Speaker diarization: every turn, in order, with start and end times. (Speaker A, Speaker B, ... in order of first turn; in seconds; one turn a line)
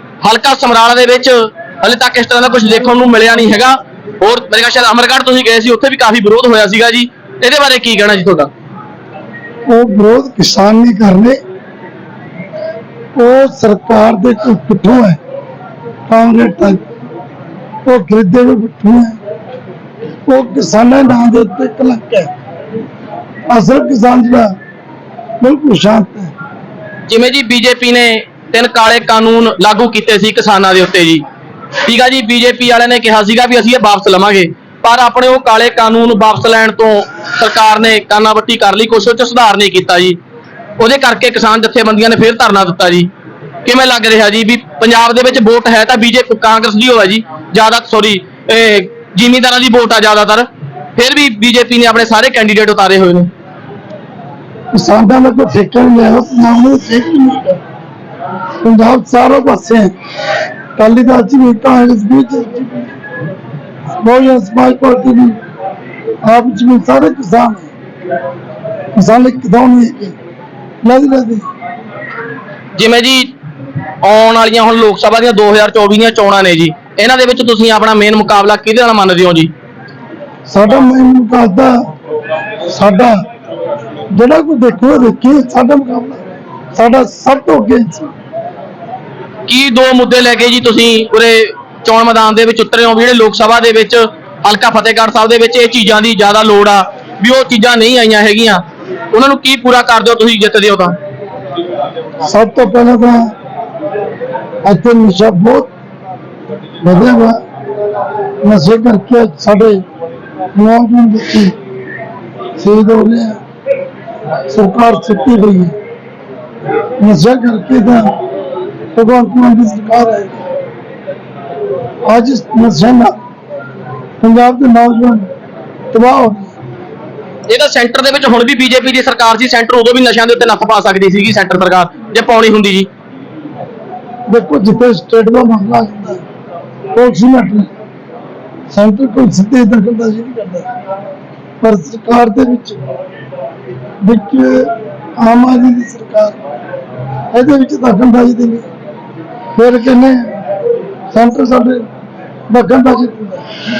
Speaker A: 0.2-8.5
Speaker B: 9.7-11.4
Speaker B: 13.2-15.2
Speaker B: 16.1-16.8
Speaker B: 17.8-19.2
Speaker B: 20.3-22.3
Speaker B: 23.5-24.5
Speaker B: 25.4-26.3
Speaker A: 27.1-31.2
Speaker A: 31.9-40.2
Speaker A: 40.8-43.1
Speaker A: 43.6-53.3
Speaker B: 54.7-57.6
Speaker B: 58.6-59.9
Speaker B: 60.8-62.9
Speaker B: 64.0-65.4
Speaker B: 66.2-67.7
Speaker B: 68.9-70.2
Speaker B: 70.8-71.5
Speaker A: 72.8-73.3
Speaker A: 74.0-79.5
Speaker B: 80.5-81.8
Speaker B: 82.7-83.2
Speaker B: 84.1-86.2
Speaker B: 86.7-88.1
Speaker A: 89.5-101.0
Speaker B: 102.2-103.3
Speaker B: 104.6-105.7
Speaker B: 106.8-107.4
Speaker B: 108.4-109.8
Speaker B: 110.5-111.5
Speaker B: 112.6-113.4
Speaker B: 114.5-115.7
Speaker B: 117.0-118.1
Speaker B: 118.9-120.4
Speaker B: 122.0-123.1
Speaker B: 124.2-125.3
Speaker B: 125.9-126.5
Speaker A: 127.5-132.9
Speaker B: 134.3-136.2
Speaker B: 136.9-137.7
Speaker B: 138.7-140.7
Speaker B: 141.6-142.8
Speaker B: 144.0-146.4
Speaker B: 147.3-148.7
Speaker B: 149.6-150.4
Speaker B: 151.1-151.9
Speaker B: 152.5-153.4